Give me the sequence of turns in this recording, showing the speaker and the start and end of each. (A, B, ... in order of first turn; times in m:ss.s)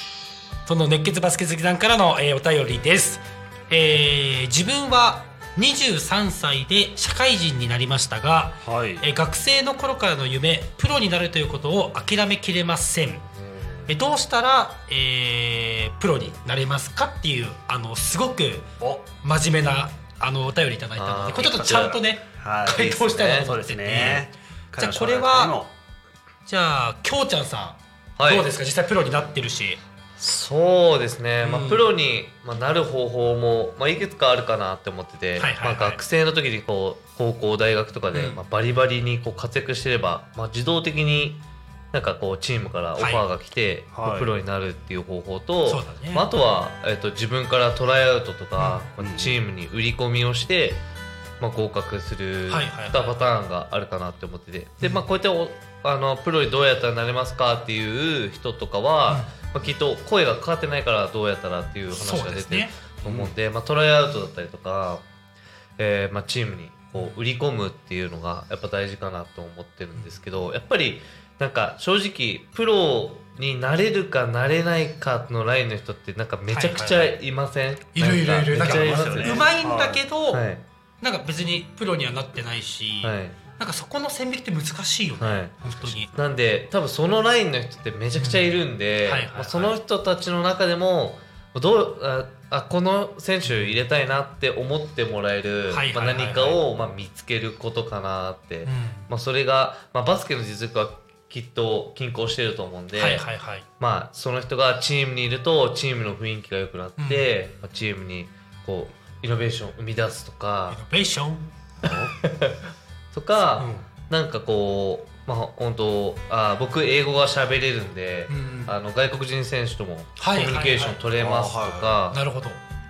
0:00.7-0:13.3 A
0:08.6-0:09.1 B
0:13.4-0:14.0 C
0:13.9-0:18.7 A
0:18.8-0:19.1 B
0:19.2-0:25.6 A
0:21.0-0:22.0 C
0:21.4-0:25.7 B
0:22.9-0:23.5 C
0:26.5-0:29.8 A
0:28.2-0:28.5 C
0:30.2-0:50.8 C
0:31.4-0:31.9 A
0:35.4-0:36.0 A
0:38.1-0:38.4 A
0:43.0-0:43.3 A
0:43.9-0:44.3 B
0:45.6-0:46.3 A
0:48.6-0:48.8 A
0:49.0-0:49.4 B
0:51.4-1:05.0 C
0:52.5-0:53.2 A
1:01.9-1:02.8 A
1:03.0-1:03.3 B
1:05.8-1:19.5 C
1:16.5-1:17.2 A
1:17.9-1:20.4 A
1:18.5-1:20.0 B
1:20.3-1:20.6 C
1:21.0-1:26.1 A
1:23.0-1:23.4 C
1:25.2-1:43.3 C
1:28.2-1:29.8 A
1:35.7-1:36.6 A
1:38.6-1:39.1 A
1:42.9-1:43.7 A
1:43.8-1:50.8 C
1:47.0-1:47.3 A
1:50.7-1:51.5 A
1:51.8-1:52.2 B
1:51.8-1:52.6 C
1:53.1-2:02.2 C
1:53.4-1:53.9 A
1:58.3-1:58.7 A
2:00.2-2:01.0 A
2:01.2-2:02.0 B
2:02.1-2:02.6 A